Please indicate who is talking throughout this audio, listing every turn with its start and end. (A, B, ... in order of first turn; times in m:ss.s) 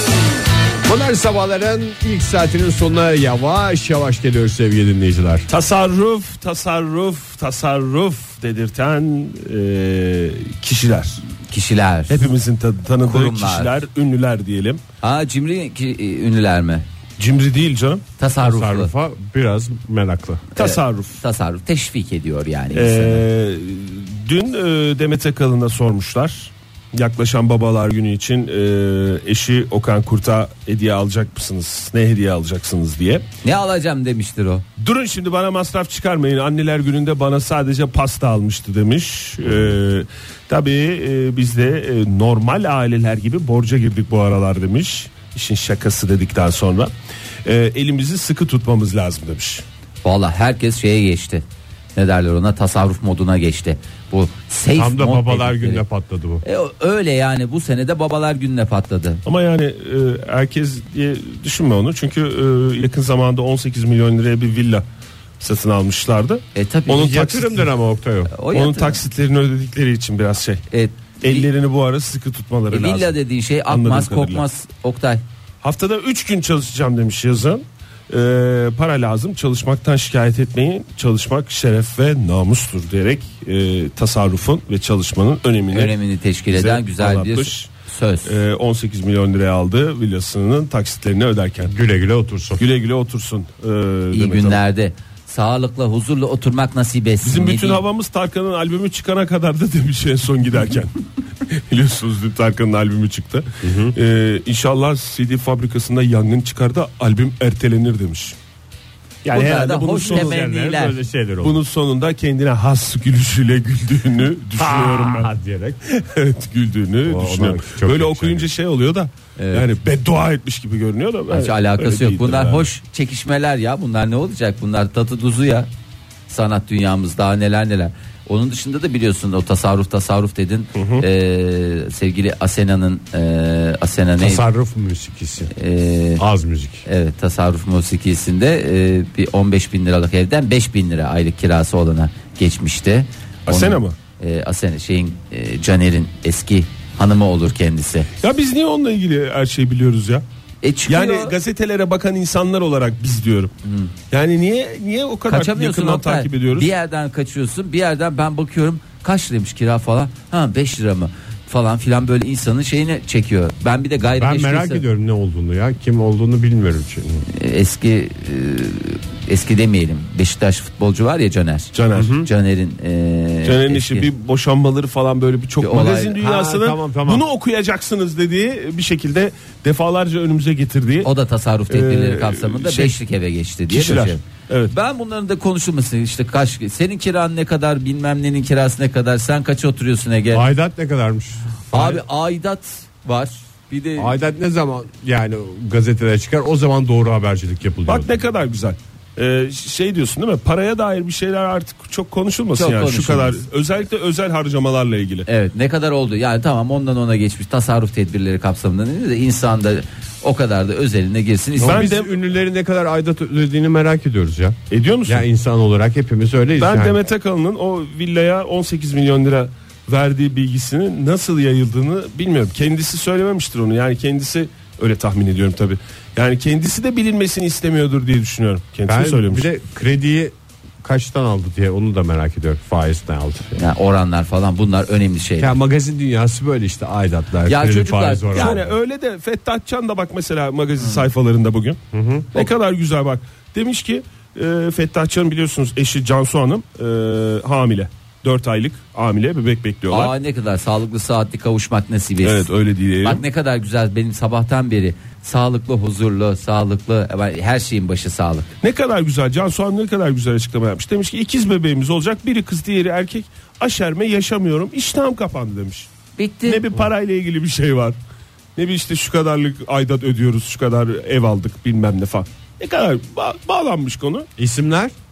0:00.8-0:05.5 A
0:05.5-0:11.2 B
0:11.5-0:12.3 C
0:12.1-0:14.8 B
0:13.0-0:13.8 C
0:15.0-0:16.8 C
0:17.2-0:18.0 B
0:18.2-0:18.9 C
0:18.4-0:20.4 A
0:20.6-0:21.2 B
0:20.6-0:23.2 C
0:22.7-0:33.2 B
0:33.4-0:34.6 C
0:34.8-0:46.9 B
0:47.4-0:49.6 B
0:50.0-0:51.4 C
0:51.9-0:55.8 C
0:54.7-0:56.4 A
0:56.4-0:59.2 C
0:59.2-1:04.8 B
1:05.4-1:07.7 B
1:06.5-1:07.2 C
1:06.9-1:08.3 A
1:08.3-1:09.0 C
1:08.5-1:10.6 B
1:10.7-1:11.5 C
1:11.2-1:13.2 B
1:12.7-1:15.2 C
1:13.7-1:14.4 B
1:15.6-1:25.9 B
1:25.7-1:28.3 C
1:26.5-1:27.7 B
1:28.2-1:31.7 B
1:31.6-1:32.6 A
1:32.6-1:34.6 B
1:34.1-1:37.8 C
1:37.2-1:48.4 B
1:43.6-1:43.9 A
1:49.2-1:50.4 B
1:49.3-1:51.0 C
1:50.0-1:51.6 A
1:51.4-1:55.3 B
1:54.6-1:55.8 A
1:55.9-2:02.7 B
1:57.0-1:58.5 A
1:59.4-1:59.7 C
2:01.3-2:05.7 C
2:06.3-2:14.4 C
2:10.8-2:11.0 B
2:14.2-2:15.5 A
2:15.5-2:16.2 C
2:16.2-2:16.8 A
2:16.8-2:28.1 C
2:23.5-2:24.0 B
2:28.2-2:30.2 B
2:30.6-2:31.3 C
2:30.9-2:33.5 B
2:33.6-2:33.9 C
2:34.1-2:36.7 B
2:35.3-2:44.8 C
2:44.2-2:47.2 A
2:47.2-2:54.1 C
2:51.7-2:52.2 B
2:51.9-2:52.3 A
2:53.4-3:01.1 B
2:55.6-2:56.2 C
2:56.2-2:57.2 A
3:01.0-3:10.4 C
3:01.7-3:03.0 B
3:03.7-3:04.7 B
3:10.3-3:12.0 A
3:11.7-3:14.2 C
3:14.0-3:18.1 A
3:17.9-3:25.3 B
3:22.6-3:23.4 C
3:25.2-3:31.9 C
3:31.6-3:37.0 A
3:31.6-3:32.1 B
3:34.7-3:35.2 B
3:36.6-3:49.5 B
3:48.9-3:53.6 A
3:53.6-3:55.5 C
3:55.4-3:58.7 A
3:57.5-3:58.6 C
3:58.3-4:01.8 B
4:01.9-4:02.5 A
4:02.3-4:10.1 B
4:09.9-4:12.5 C
4:12.2-4:13.2 B
4:13.0-4:18.5 C
4:18.6-4:25.9 B
4:26.2-4:26.6 C
4:26.4-4:28.0 B
4:28.6-4:34.3 B
4:34.4-4:34.9 A